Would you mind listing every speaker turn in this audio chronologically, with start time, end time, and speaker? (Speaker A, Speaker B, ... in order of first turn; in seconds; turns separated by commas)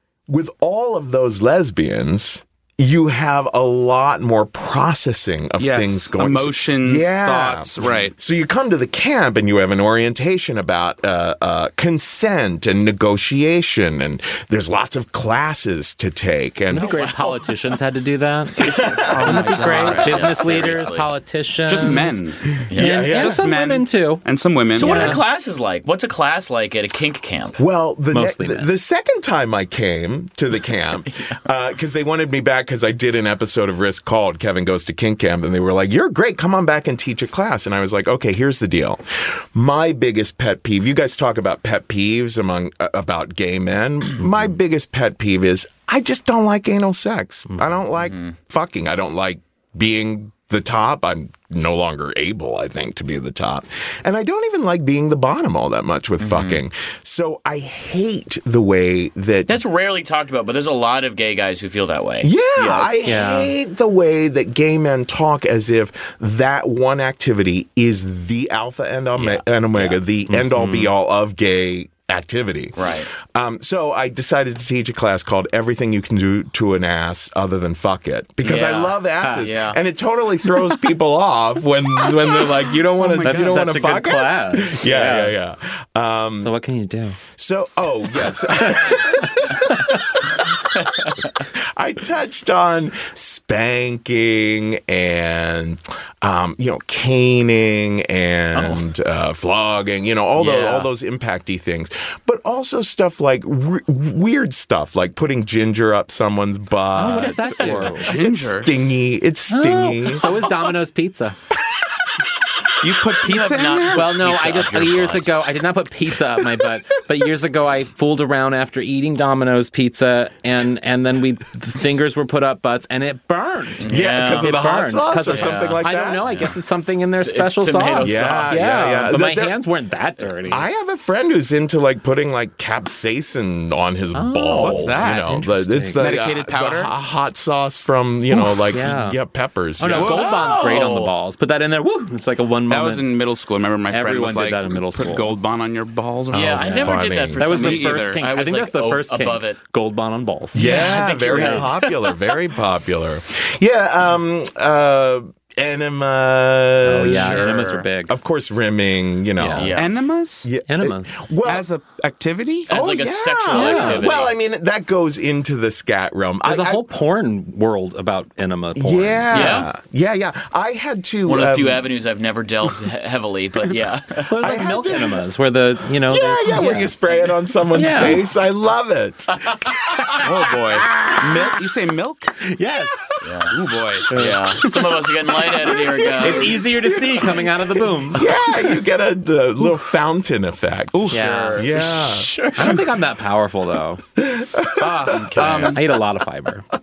Speaker A: 0.3-17.1, Speaker B: 5.6-8.2, Speaker C: 16.7-22.2, Speaker D: 16.8-17.3, Speaker A: 18.6-19.5, Speaker D: 18.6-21.1, Speaker B: 18.9-20.9, Speaker B: 21.7-25.2, Speaker D: 22.7-23.0, Speaker A: 22.7-23.5, Speaker C: 22.8-24.2, Speaker D: 24.8-27.6, Speaker C: 24.8-25.2, Speaker A: 27.6-59.6, Speaker C: 28.1-28.7, Speaker D: 56.2-56.6, Speaker D: 59.5-63.0, Speaker A: 62.2-86.5, Speaker C: 63.0-63.5, Speaker D: 69.2-70.0, Speaker D: 70.5-70.9, Speaker D: 72.8-73.1, Speaker D: 78.4-79.8, Speaker B: 83.0-83.6, Speaker C: 83.2-85.3, Speaker C: 86.4-87.2, Speaker A: 87.3-90.5, Speaker C: 89.6-89.8, Speaker D: 90.8-91.1, Speaker A: 91.4-110.3, Speaker D: 98.5-98.8, Speaker D: 100.4-100.9, Speaker C: 106.9-108.1, Speaker B: 107.8-108.8, Speaker C: 109.5-111.4, Speaker B: 112.8-114.1, Speaker D: 113.2-115.3, Speaker C: 113.9-130.7, Speaker D: 123.8-124.6, Speaker A: 123.9-126.3, Speaker D: 125.2-126.5, Speaker D: 127.2-128.7, Speaker A: 128.0-129.6, Speaker A: 130.5-140.2, Speaker C: 134.1-136.2, Speaker B: 134.6-135.3, Speaker B: 136.0-136.9, Speaker C: 138.3-139.2, Speaker C: 139.8-143.1, Speaker B: 139.9-140.3, Speaker D: 140.0-141.1, Speaker B: 142.7-148.2, Speaker C: 143.9-145.3, Speaker A: 146.3-147.5, Speaker D: 146.3-149.6, Speaker C: 146.6-150.7, Speaker A: 150.5-159.8, Speaker D: 150.6-152.3, Speaker B: 150.6-150.9, Speaker C: 151.3-151.7, Speaker C: 156.8-158.1, Speaker D: 157.1-157.9, Speaker C: 159.4-159.7, Speaker D: 159.6-159.9, Speaker B: 159.8-160.5, Speaker A: 160.4-161.7, Speaker C: 160.7-161.3, Speaker B: 161.4-162.8, Speaker D: 162.7-164.3, Speaker A: 162.7-166.8, Speaker C: 163.5-164.1, Speaker C: 166.4-169.6, Speaker A: 168.8-171.9, Speaker D: 169.3-169.7, Speaker D: 171.3-174.3, Speaker C: 174.3-176.9, Speaker A: 174.4-175.2, Speaker A: 176.1-179.5, Speaker C: 177.7-178.2, Speaker C: 180.0-181.3, Speaker B: 180.2-182.5, Speaker A: 181.2-181.6, Speaker C: 182.4-183.2, Speaker D: 183.2-183.6, Speaker B: 183.5-184.9, Speaker D: 184.1-186.6, Speaker C: 184.1-184.4, Speaker A: 185.7-192.3, Speaker C: 186.2-188.3, Speaker B: 190.9-191.7, Speaker C: 191.1-191.7, Speaker D: 191.8-192.8, Speaker C: 192.5-194.0, Speaker A: 194.2-195.6, Speaker B: 194.8-195.8, Speaker D: 195.1-195.8, Speaker C: 195.7-196.7